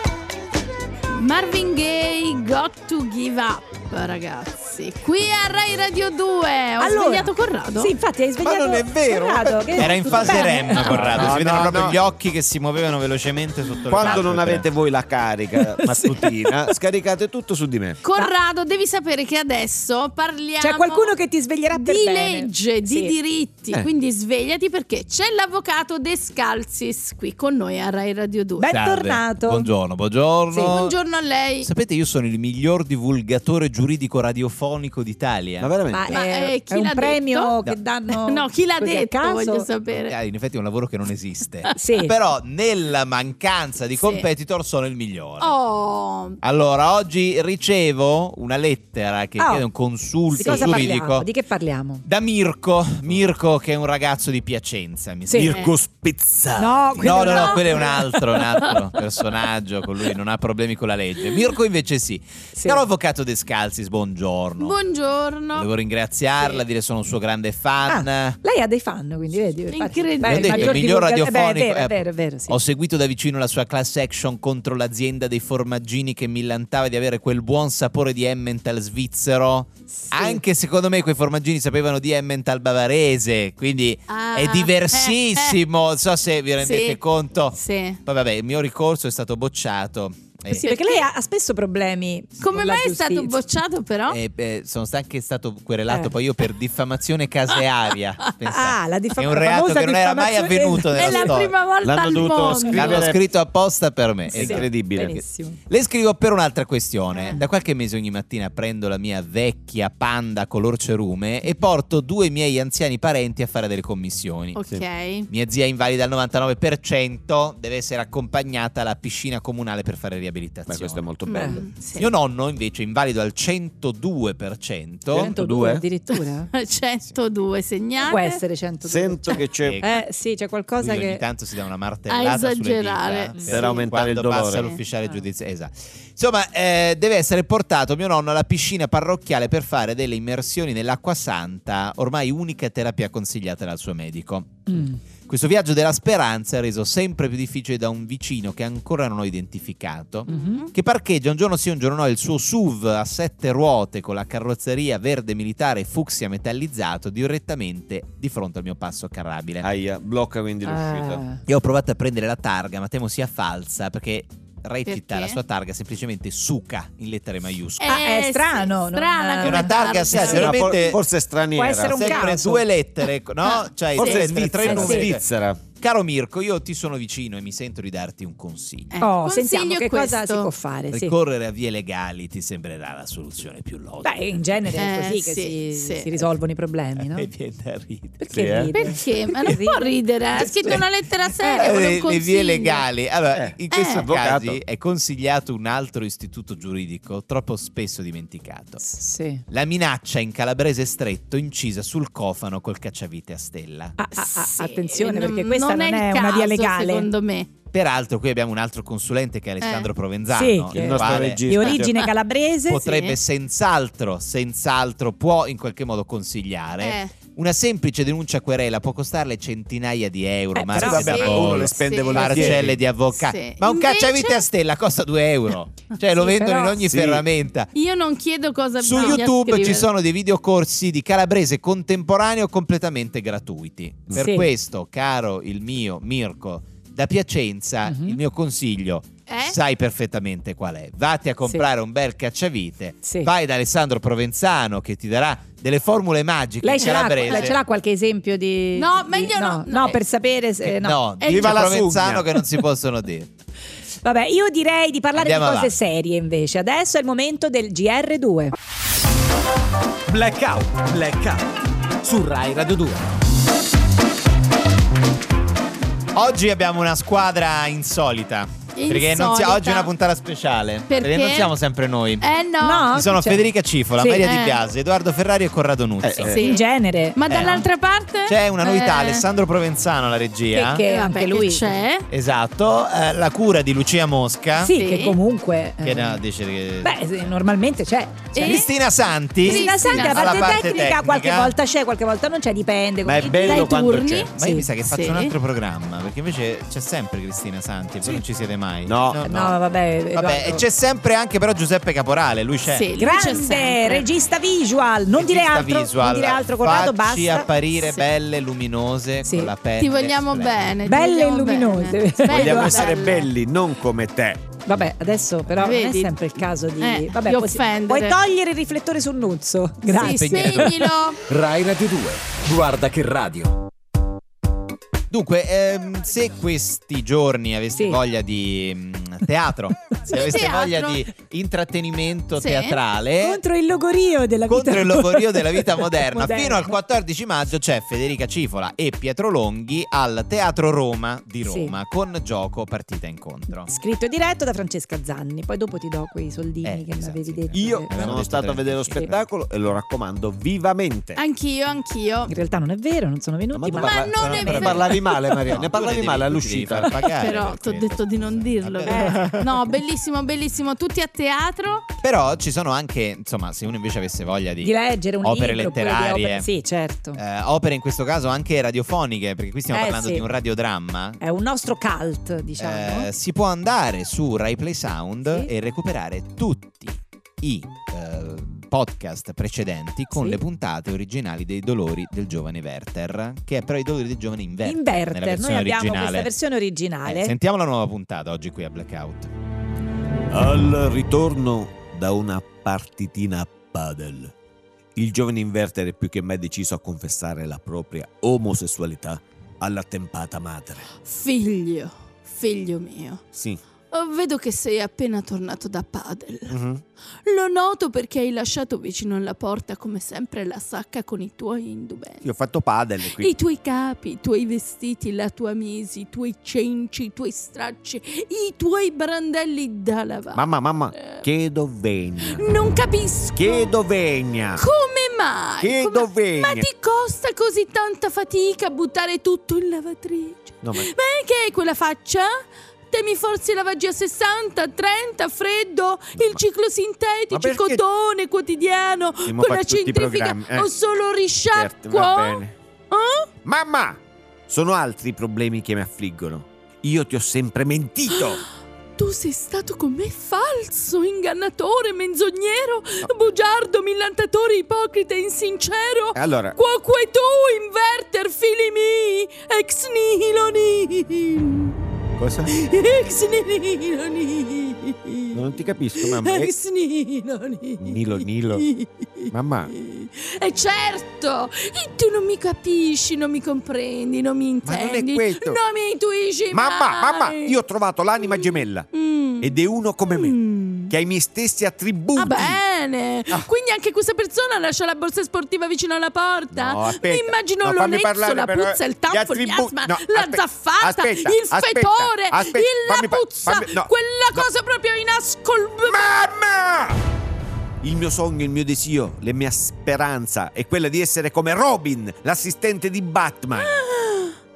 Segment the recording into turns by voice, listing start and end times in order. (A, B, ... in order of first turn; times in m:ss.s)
0:01.1-0:07.9 A
0:06.8-0:11.3 B
0:08.4-0:12.0 C
0:09.7-0:14.7 D
0:13.9-0:18.0 C
0:14.0-0:14.2 B
0:15.6-0:16.7 B
0:18.0-0:21.1 A
0:20.6-0:23.2 B
0:21.7-0:28.7 A
0:28.6-0:29.7 B
0:28.7-0:31.0 D
0:30.5-0:30.8 B
0:30.7-0:31.7 A
0:31.6-0:35.7 D
0:35.6-0:36.2 C
0:35.9-0:39.7 B
0:36.1-0:37.6 A
0:38.1-0:40.2 A
0:39.9-0:45.6 D
0:41.8-0:42.1 B
0:44.0-0:44.3 A
0:45.4-0:46.4 A
0:46.4-0:51.3 D
0:49.4-0:49.7 B
0:50.3-0:52.0 B
0:50.4-0:50.8 A
0:52.0-0:55.7 D
0:55.3-0:55.6 B
0:55.3-0:57.5 C
0:56.6-0:58.2 B
0:57.0-1:04.8 D
0:57.2-0:58.5 A
1:02.6-1:02.8 B
1:04.6-1:05.7 A
1:05.5-1:08.4 D
1:07.9-1:12.6 B
1:09.7-1:10.9 A
1:10.2-1:30.7 D
1:24.1-1:25.6 A
1:26.6-1:27.0 A
1:27.5-1:28.0 A
1:30.5-1:31.0 A
1:30.5-1:33.4 B
1:32.4-1:34.2 A
1:34.1-1:44.7 D
1:38.4-1:41.4 B
1:41.0-1:43.1 A
1:41.8-1:43.2 C
1:44.3-1:45.2 C
1:44.3-1:45.6 B
1:45.7-1:54.6 D
1:47.1-1:47.4 A
1:54.6-1:55.3 A
1:55.3-2:01.0 D
2:00.7-2:01.7 C
2:01.3-2:02.1 A
2:01.3-2:01.6 B
2:02.0-2:05.3 D
2:05.1-2:05.8 C
2:05.1-2:06.5 B
2:06.2-2:08.4 A
2:08.0-2:11.2 B
2:08.8-2:09.8 C
2:09.6-2:10.0 D
2:10.8-2:39.7 D
2:12.1-2:13.9 A
2:13.4-2:14.8 C
2:24.7-2:25.0 B
2:30.3-2:30.7 B
2:30.3-2:30.7 A
2:39.6-2:41.2 C
2:40.6-2:41.4 B
2:41.5-2:48.1 D
2:44.9-2:45.4 A
2:47.8-2:51.0 A
2:47.8-2:50.3 B
2:49.4-2:51.0 D
2:50.2-2:52.5 C
2:51.6-2:52.6 B
2:51.8-2:55.2 D
2:53.4-2:54.3 A
2:54.0-2:55.6 C
2:54.6-2:55.1 B
2:55.8-2:58.9 D
2:58.9-3:00.5 A
2:59.0-3:01.2 B
3:00.9-3:04.8 D
3:04.0-3:07.3 B
3:04.8-3:06.1 A
3:07.0-3:08.3 D
3:08.2-3:10.8 B
3:08.3-3:08.7 C
3:08.7-3:12.8 A
3:11.4-3:11.8 B
3:11.5-3:18.9 D
3:13.3-3:14.6 C
3:13.7-3:14.1 A
3:18.9-3:19.4 B
3:19.5-3:24.0 D
3:24.0-3:27.1 B
3:24.1-3:27.5 A
3:27.7-3:31.5 D
3:29.6-3:29.9 A
3:30.3-3:33.2 B
3:30.7-3:31.9 C
3:31.6-3:32.1 A
3:32.7-3:47.7 D
3:36.8-3:37.1 A
3:40.6-3:41.4 B
3:40.8-3:42.8 C
3:41.0-3:44.4 A
3:46.2-3:46.8 B
3:46.9-3:47.3 C
3:47.7-3:49.9 A
3:48.8-4:07.6 D
3:48.9-3:49.2 B
3:54.1-3:54.5 B
3:57.8-3:58.2 B
3:59.3-3:59.6 A
4:03.0-4:03.3 B
4:06.6-4:11.0 B
4:06.8-4:07.5 A
4:08.8-4:10.0 A
4:10.6-4:13.3 D
4:11.2-4:11.6 A
4:11.2-4:12.4 C
4:14.0-4:18.6 B
4:15.2-4:15.7 D
4:20.1-4:21.4 E
4:22.0-4:23.0 E
4:26.2-4:32.3 D
4:28.8-4:29.9 A
4:30.9-4:31.5 A
4:32.2-4:32.9 A
4:32.6-4:33.5 B
4:32.9-4:36.4 D
4:34.0-4:34.3 B
4:34.2-4:34.6 A
4:36.0-4:36.4 C
4:36.2-4:39.2 A
4:36.3-4:37.6 B
4:37.3-4:37.7 D
4:38.2-4:40.8 D
4:40.5-4:41.7 B
4:40.8-4:42.1 A
4:42.1-4:44.8 D
4:44.6-4:46.2 B
4:44.7-4:45.2 A
4:45.8-4:47.3 D
4:46.8-4:48.6 B
4:48.4-4:48.7 A
4:48.4-4:51.6 D
4:49.4-4:50.9 A
4:49.4-4:53.8 B
4:53.0-4:54.3 C
4:53.4-4:54.3 A
4:54.3-4:59.6 D
4:54.4-4:54.7 B
4:54.8-4:55.3 A
4:58.9-4:59.2 C
4:59.2-5:00.6 B
5:00.1-5:02.9 D
5:02.6-5:04.1 A
5:03.0-5:08.1 B
5:05.2-5:10.7 D
5:09.2-5:09.5 B
5:09.8-5:13.3 A
5:10.8-5:13.1 B
5:12.3-5:14.4 C
5:14.7-5:20.7 B
5:15.6-5:16.3 A
5:16.8-5:18.2 A
5:19.9-5:21.2 A
5:19.9-5:21.0 D
5:21.3-5:23.6 E
5:25.1-5:33.4 D
5:27.8-5:28.0 B
5:30.1-5:31.0 A
5:32.4-5:32.8 A
5:33.2-5:36.8 B
5:34.5-5:43.7 D
5:41.4-5:41.8 B
5:43.6-5:48.2 B
5:46.6-5:49.2 D
5:47.5-5:51.2 C
5:51.2-5:52.3 A
5:52.3-5:54.1 B
5:53.5-5:57.0 C
5:53.7-5:55.4 A
5:54.1-5:59.4 D
5:57.0-6:01.9 A
5:58.9-5:59.3 B
6:02.0-6:06.5 D
6:04.6-6:07.2 B
6:07.2-6:11.2 D
6:09.7-6:10.2 B
6:11.2-6:13.1 B
6:12.6-6:26.3 D
6:15.2-6:15.5 B
6:20.1-6:20.4 B
6:24.6-6:27.3 B
6:27.0-6:29.3 D
6:30.3-6:34.3 C
6:35.0-6:40.9 C
6:41.0-6:43.2 A
6:43.3-6:43.6 C
6:43.9-6:46.6 A
6:46.5-6:46.8 C
6:47.2-6:52.3 A
6:52.2-6:53.3 C
6:53.1-7:00.4 A
7:00.3-7:02.4 C
7:01.0-7:01.2 A
7:02.3-7:03.7 A
7:03.4-7:04.7 C
7:04.6-7:23.3 A
7:05.6-7:06.7 C
7:10.6-7:10.9 C
7:16.2-7:16.4 C
7:17.3-7:17.8 C
7:19.2-7:20.7 C
7:21.5-7:22.6 C
7:23.4-7:28.4 C
7:29.0-7:41.8 A
7:36.2-7:36.6 C
7:42.2-7:42.5 C
7:42.5-7:45.4 A
7:45.3-7:46.5 C
7:46.0-7:57.5 A
7:47.8-7:48.7 C
7:49.3-7:49.7 C
7:54.6-7:55.6 C
7:56.5-7:58.9 C
7:58.3-7:59.5 A
7:59.4-8:00.4 C
8:00.1-8:00.9 A
8:00.9-8:02.6 C
8:02.2-8:16.1 A
8:06.5-8:14.5 C
8:15.9-8:17.0 C
8:17.8-8:23.8 C
8:23.6-8:24.4 A